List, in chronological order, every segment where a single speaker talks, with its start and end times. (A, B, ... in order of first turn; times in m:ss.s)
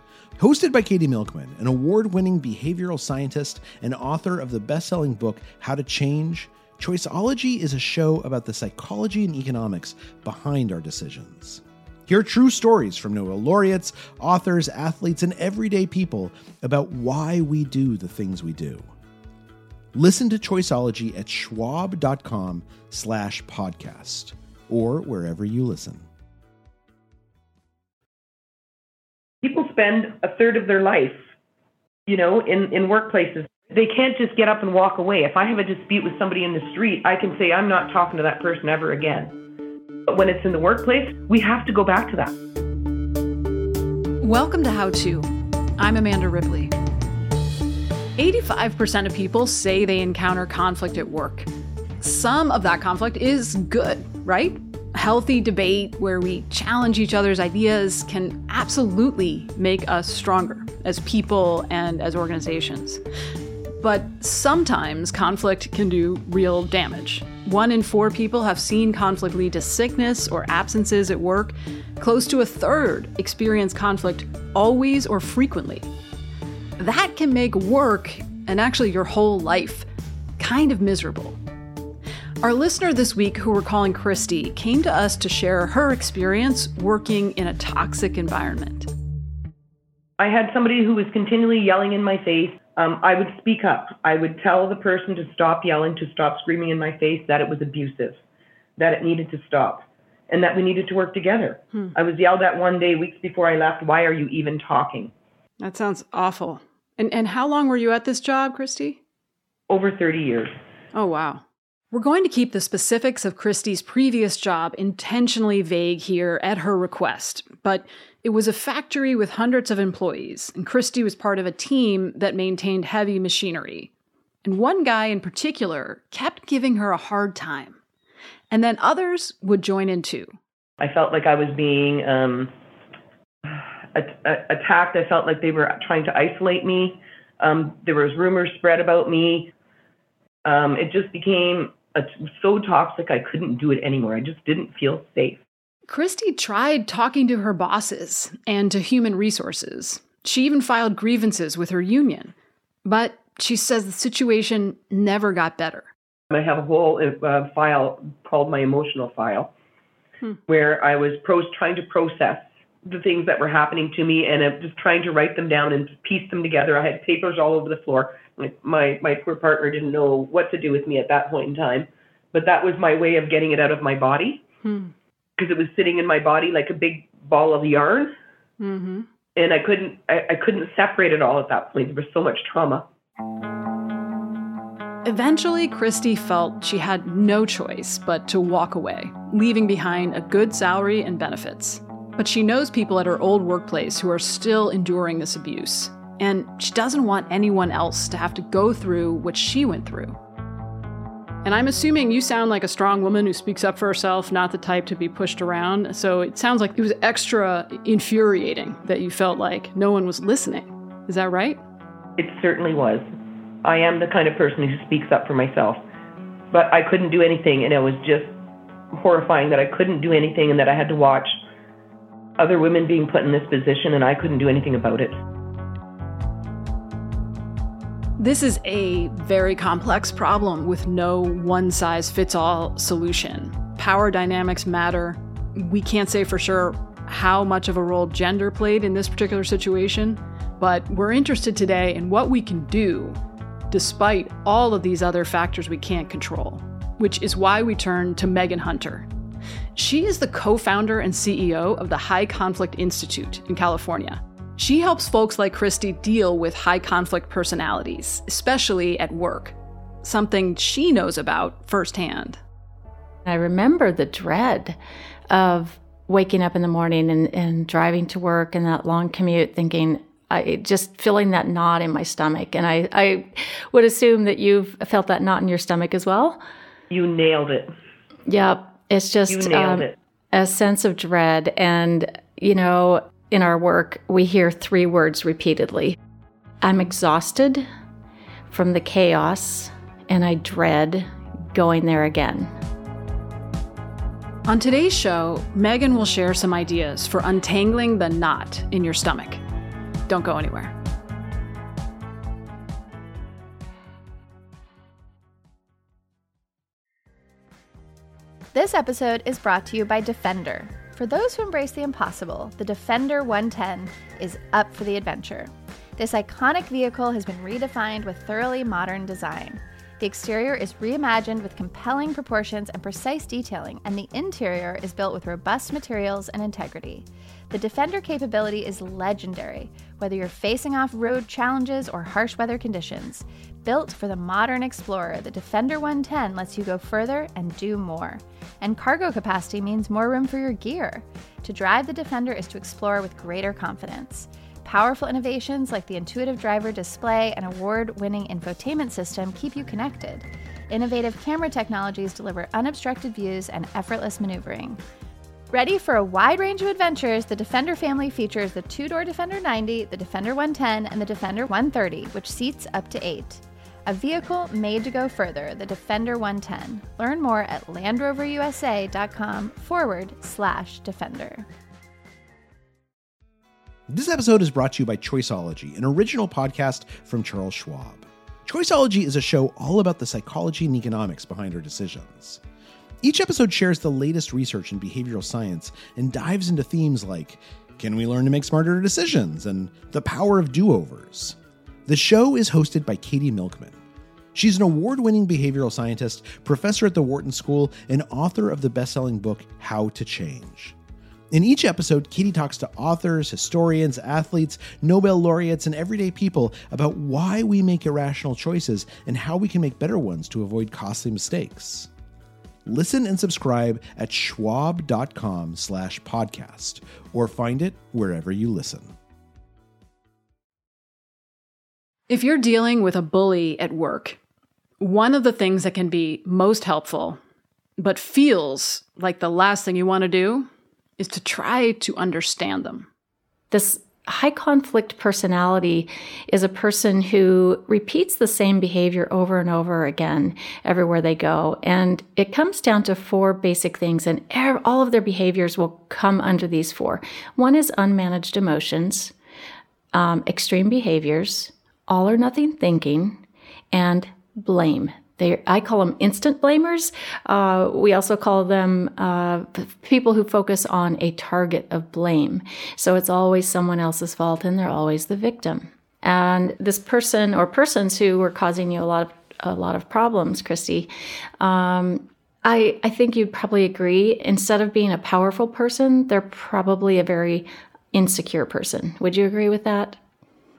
0:00.4-0:18.9 A
0:19.9-0:26.1 A
0:29.4-0:31.2 B
0:32.1-0:39.3 B
0:40.1-0:42.4 B
0:44.2-0:46.7 C
0:48.2-0:51.5 C
0:52.0-1:03.0 C
1:03.8-1:15.9 C
1:16.8-1:19.9 C
1:20.4-1:21.4 C
1:22.4-1:28.9 C
1:30.2-1:38.2 B
1:38.8-1:45.1 B
1:45.6-1:49.0 C
1:49.7-1:50.5 B
1:50.9-2:03.9 C
2:04.4-2:07.8 C
2:08.5-2:10.3 C
2:10.8-2:12.5 B
2:13.4-2:19.5 B
2:20.4-2:25.4 B
2:25.9-2:32.3 C
2:32.8-2:35.9 C
2:36.3-2:39.5 B
2:40.5-2:54.4 B
2:54.6-2:54.9 C
2:55.4-2:58.1 B
2:58.6-2:59.1 C
2:59.4-3:02.9 B
3:05.0-3:20.2 C
3:21.4-3:31.6 C
3:32.2-3:33.1 B
3:33.6-3:35.8 B
3:36.5-3:38.3 B
3:38.9-3:41.4 B
3:42.4-3:45.2 B
3:48.2-4:03.2 C
4:03.7-4:09.1 C
4:09.8-4:22.4 C
4:23.3-4:24.8 D
4:25.3-4:36.4 D
4:36.9-4:37.7 B
4:38.3-4:46.0 D
4:39.3-4:39.9 B
4:46.6-4:47.6 D
4:48.5-4:52.5 D
4:54.4-4:59.4 C
5:00.1-5:00.8 C
5:08.5-5:54.8 E
5:55.5-6:11.5 E
6:13.9-6:22.4 A
6:23.0-6:33.8 A
6:34.3-6:40.8 A
6:41.3-6:51.9 A
6:52.7-6:59.0 A
7:02.1-7:04.2 C
7:04.8-7:07.2 C
7:07.8-7:12.9 C
7:13.5-7:29.1 D
7:29.9-8:00.0 D